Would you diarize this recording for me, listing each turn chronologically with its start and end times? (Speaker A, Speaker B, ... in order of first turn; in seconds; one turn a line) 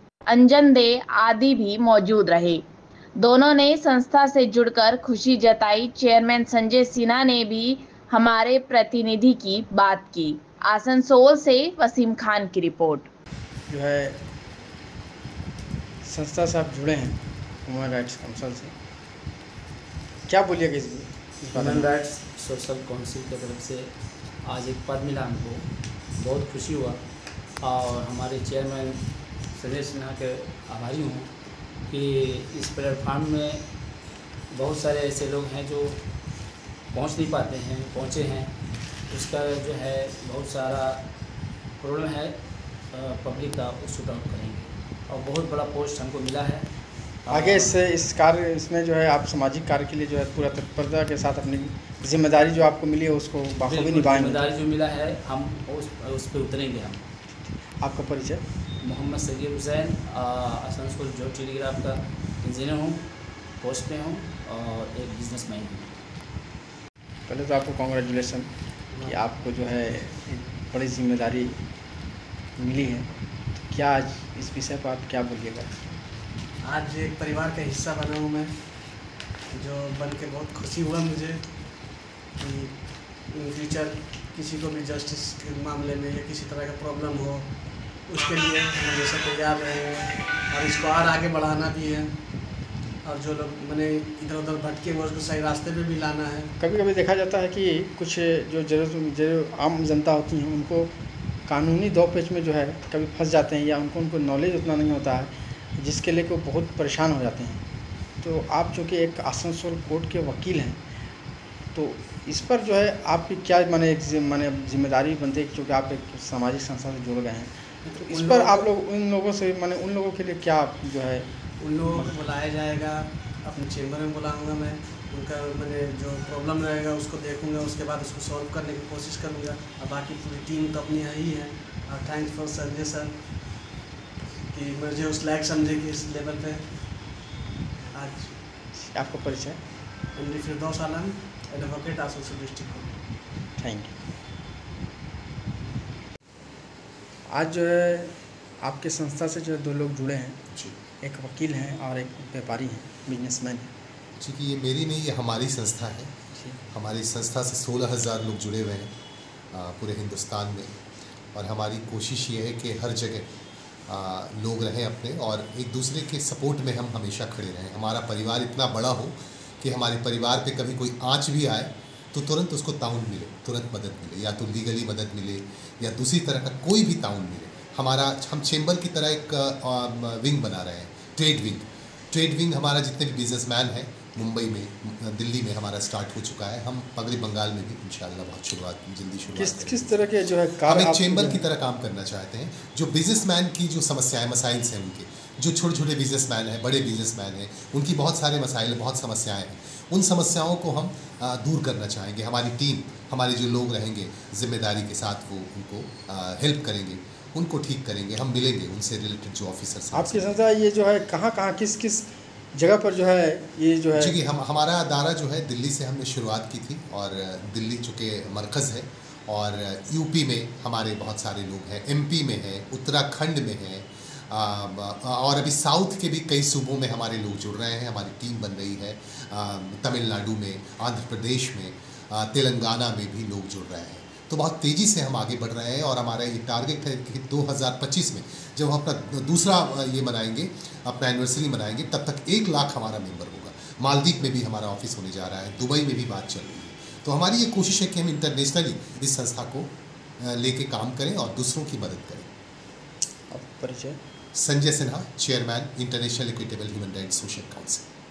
Speaker A: 0.3-2.6
Speaker A: 3.2-13.1
Speaker B: 13.7-14.2
Speaker B: 16.0-18.7
Speaker B: 20.3-21.9
Speaker C: 21.5-23.9
Speaker C: 24.4-27.0
Speaker C: 27.6-31.3
Speaker C: 31.9-33.6
Speaker C: 34.5-36.0
Speaker C: 36.9-38.5
Speaker C: 39.1-41.0
Speaker C: 41.8-42.4
Speaker C: 42.9-46.7
Speaker C: 47.2-47.8
Speaker B: 47.3-54.5
Speaker C: 53.6-57.1
Speaker B: 57.6-58.4
Speaker C: 58.8-63.0
Speaker C: 63.6-65.9
Speaker B: 67.3-68.5
Speaker D: 68.9-69.2
Speaker B: 69.0-71.6
Speaker B: 72.6-75.9
Speaker D: 76.6-78.5
Speaker D: 79.5-92.2
Speaker D: 93.0-96.5
Speaker B: 96.6-100.9
Speaker B: 101.5-107.6
Speaker B: 108.2-110.8
Speaker B: 111.7-121.3
Speaker D: 117.8-118.7
Speaker D: 121.6-133.5
Speaker D: 134.5-136.8
Speaker D: 137.9-138.4
Speaker B: 138.7-139.6
Speaker D: 140.1-142.9
Speaker B: 143.6-143.9
Speaker B: 147.3-150.4
Speaker B: 151.0-153.7
Speaker E: 154.2-156.1
Speaker B: 156.3-156.6
Speaker E: 156.7-158.9
Speaker E: 159.5-160.8
Speaker E: 161.3-163.3
Speaker E: 163.9-190.1
Speaker B: 189.4-191.4
Speaker E: 190.6-210.4
Speaker B: 209.9-214.2
Speaker E: 213.9-252.3
Speaker B: 253.3-254.0
Speaker E: 254.4-257.9